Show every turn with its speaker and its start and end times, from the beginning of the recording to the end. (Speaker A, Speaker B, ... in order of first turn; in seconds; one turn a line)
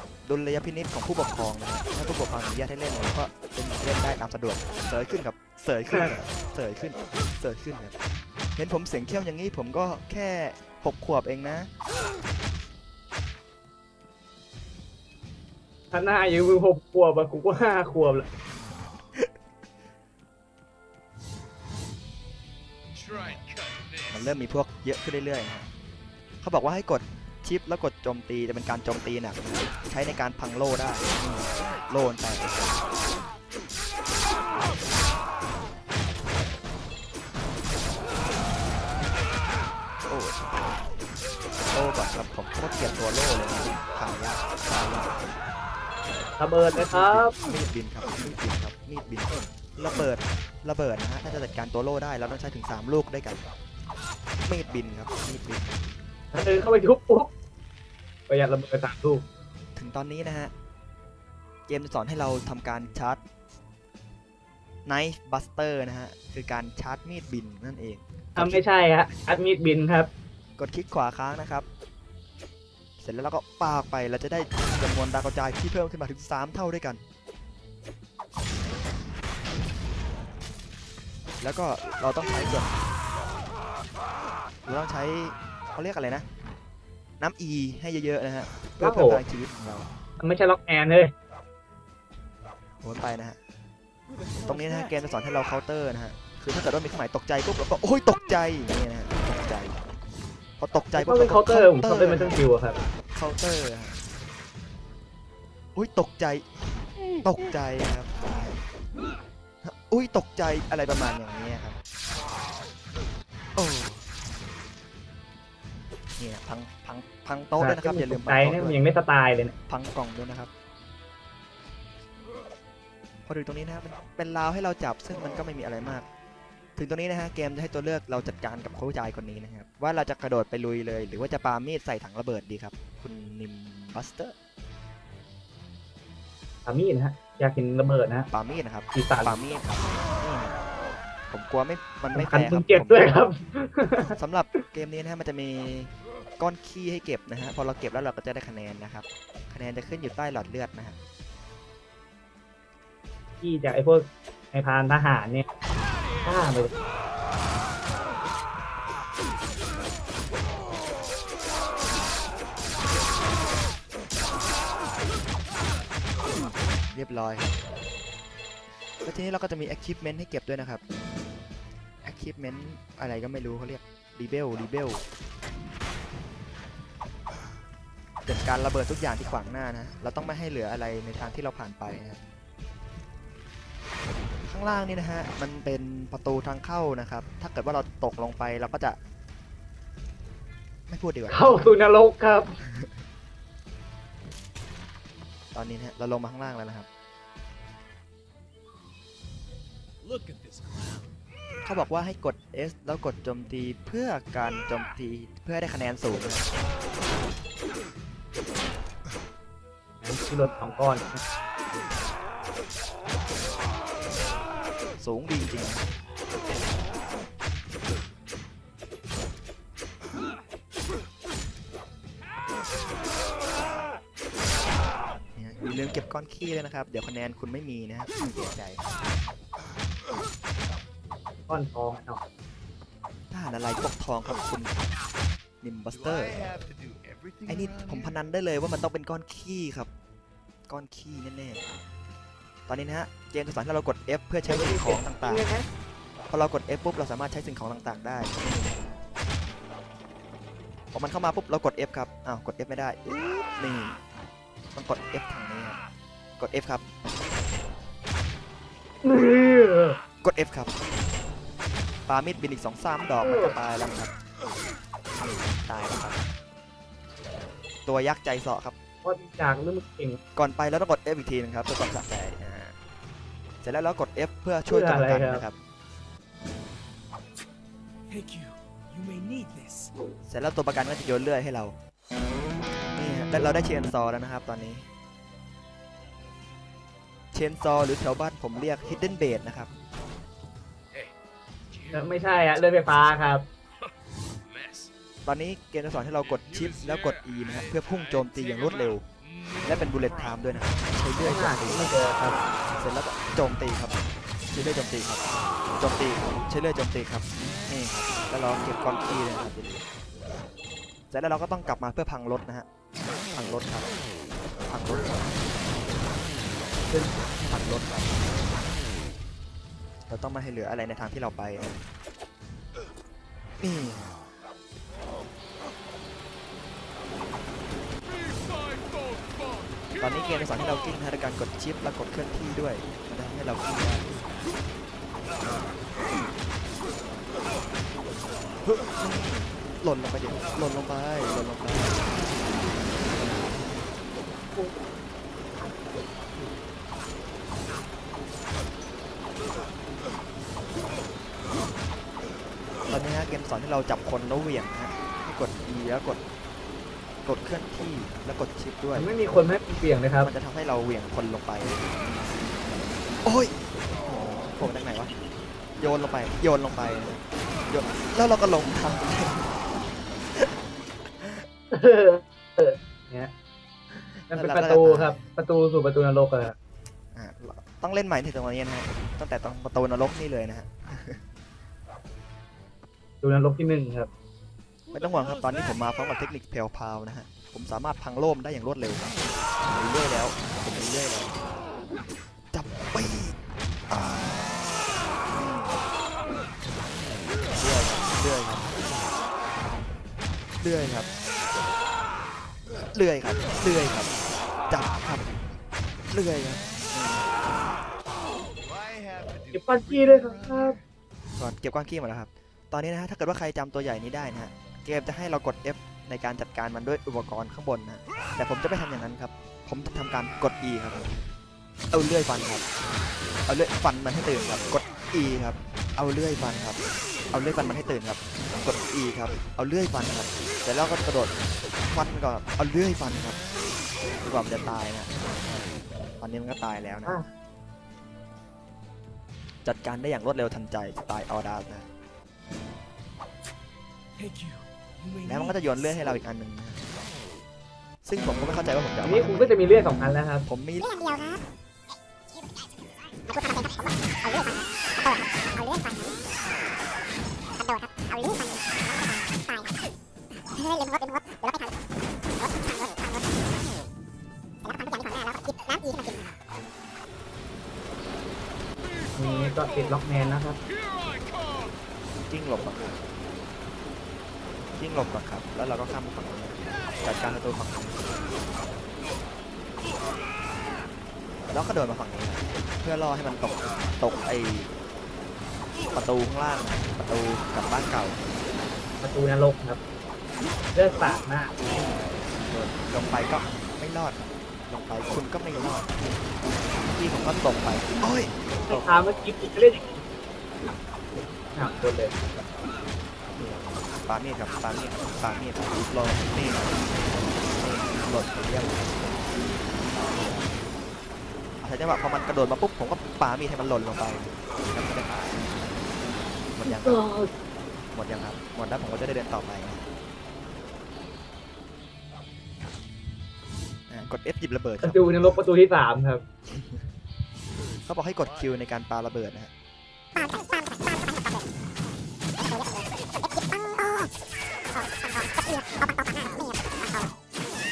Speaker A: 0.2-8.0
Speaker A: 8.6-11.7
Speaker B: 15.9-18.3
Speaker A: 23.1-23.4
Speaker A: 24.1-25.7
Speaker A: 26.4-32.8
Speaker A: 40.1-40.4
Speaker A: 41.7-45.1
Speaker B: 46.4-47.4
Speaker A: 46.9-53.4
Speaker A: 54.5-55.8
Speaker B: 56.3-57.3
Speaker B: 58.3-59.3
Speaker A: 59.8-60.5
Speaker A: 61.7-63.2
Speaker A: 64.9-68.6
Speaker B: 68.4-70.1
Speaker A: 70.6-71.7
Speaker A: 73.0-77.0
Speaker A: 81.4-82.8
Speaker A: 84.7-86.2
Speaker A: 87.2-89.9
Speaker B: 88.8-89.2
Speaker B: 90.2-91.1
Speaker A: 92.8-93.4
Speaker C: 94.2-94.6
Speaker A: 94.4-99.8
Speaker A: 100.6-102.4
Speaker B: 100.9-102.8
Speaker A: 103.1-104.0
Speaker A: 105.8-106.5
Speaker A: 107.2-108.6
Speaker A: 109.6-111.8
Speaker A: 113.6-114.1
Speaker A: 116.2-118.8
Speaker B: 117.6-119.5
Speaker A: 119.7-120.5
Speaker A: 123.3-126.0
Speaker A: 126.8-134.3
Speaker B: 136.7-138.3
Speaker A: 138.3-140.6
Speaker B: 138.9-139.4
Speaker A: 141.3-143.1
Speaker B: 142.1-144.6
Speaker A: 144.0-151.0
Speaker B: 153.4-155.5
Speaker B: 156.2-156.8
Speaker A: 166.9-167.5
Speaker A: 169.0-170.8
Speaker A: 172.0-175.0
Speaker A: 178.3-182.2
Speaker A: 184.4-189.0
Speaker A: 190.9-191.7
Speaker B: 191.3-192.5
Speaker A: 195.5-196.9
Speaker C: 200.0-201.1
Speaker A: 201.6-206.5
Speaker B: 210.0-211.2
Speaker A: 215.0-215.8
Speaker A: 225.4-228.8
Speaker B: 231.5-232.2
Speaker A: 233.3-234.9
Speaker A: 235.6-236.4
Speaker A: 237.4-239.9
Speaker A: 240.7-241.7
Speaker A: 242.7-245.5
Speaker B: 244.4-245.7
Speaker A: 246.3-248.8
Speaker A: 250.9-254.0
Speaker A: 254.7-255.8
Speaker A: 256.4-256.8
Speaker B: 259.0-260.0
Speaker A: 260.2-260.7
Speaker A: 262.1-264.1
Speaker B: 263.2-263.6
Speaker A: 265.2-266.2
Speaker A: 267.9-268.8
Speaker B: 269.0-270.2
Speaker A: 270.4-272.8
Speaker A: 273.6-275.6
Speaker B: 274.7-275.5
Speaker C: 278.1-279.9
Speaker A: 280.3-281.8
Speaker A: 283.0-284.9
Speaker A: 287.3-289.7
Speaker B: 291.9-293.5
Speaker A: 295.2-299.1
Speaker A: 299.6-301.9
Speaker B: 301.2-302.4
Speaker A: 302.8-305.2
Speaker A: 305.8-309.8
Speaker A: 311.1-312.7
Speaker A: 313.3-314.0
Speaker A: 314.6-315.6
Speaker A: 317.4-318.3
Speaker A: 320.1-321.8
Speaker A: 323.6-324.2
Speaker A: 330.0-334.1
Speaker A: 338.6-342.0
Speaker A: 352.9-356.2
Speaker A: 357.2-359.1
Speaker B: 358.9-360.3
Speaker A: 360.2-362.1
Speaker A: 363.2-365.1
Speaker A: 365.8-369.5
Speaker B: 371.7-373.3
Speaker A: 374.2-375.3
Speaker B: 374.3-376.6
Speaker A: 377.1-381.2
Speaker B: 383.2-384.1
Speaker A: 384.9-389.1
Speaker A: 389.6-391.4
Speaker A: 392.5-393.4
Speaker A: 393.9-394.5
Speaker A: 395.3-395.8
Speaker A: 397.5-398.7
Speaker A: 400.6-401.1
Speaker A: 402.9-404.1
Speaker A: 404.7-405.2
Speaker A: 406.1-407.3
Speaker B: 409.5-410.8
Speaker A: 411.4-421.1
Speaker A: 421.9-422.6
Speaker A: 423.5-426.8
Speaker A: 427.3-431.3
Speaker A: 431.9-433.4
Speaker A: 434.2-435.1
Speaker A: 436.2-437.2
Speaker A: 439.6-441.9
Speaker C: 444.2-445.7
Speaker A: 445.2-446.8
Speaker A: 448.0-449.6
Speaker B: 449.0-450.5
Speaker A: 450.5-450.9
Speaker D: 450.8-451.4
Speaker D: 452.3-452.7
Speaker D: 453.3-456.2
Speaker D: 457.6-459.7
Speaker D: 460.6-461.8
Speaker D: 462.4-463.3
Speaker D: 464.6-466.3
Speaker B: 469.2-470.6
Speaker A: 472.3-473.0
Speaker A: 474.8-478.1
Speaker A: 481.5-484.7
Speaker A: 485.9-488.2
Speaker B: 489.0-489.8
Speaker B: 490.8-491.6
Speaker A: 492.4-496.2
Speaker A: 496.8-498.9
Speaker B: 498.7-500.1
Speaker B: 501.5-502.1
Speaker A: 503.4-509.3
Speaker A: 509.9-510.6
Speaker A: 511.6-515.9
Speaker A: 516.5-517.0
Speaker B: 516.6-517.3
Speaker A: 517.9-519.9
Speaker A: 523.9-525.1
Speaker B: 524.8-526.2
Speaker A: 526.5-526.8
Speaker A: 527.9-529.5
Speaker D: 530.1-531.5
Speaker D: 532.4-534.1
Speaker D: 534.7-537.1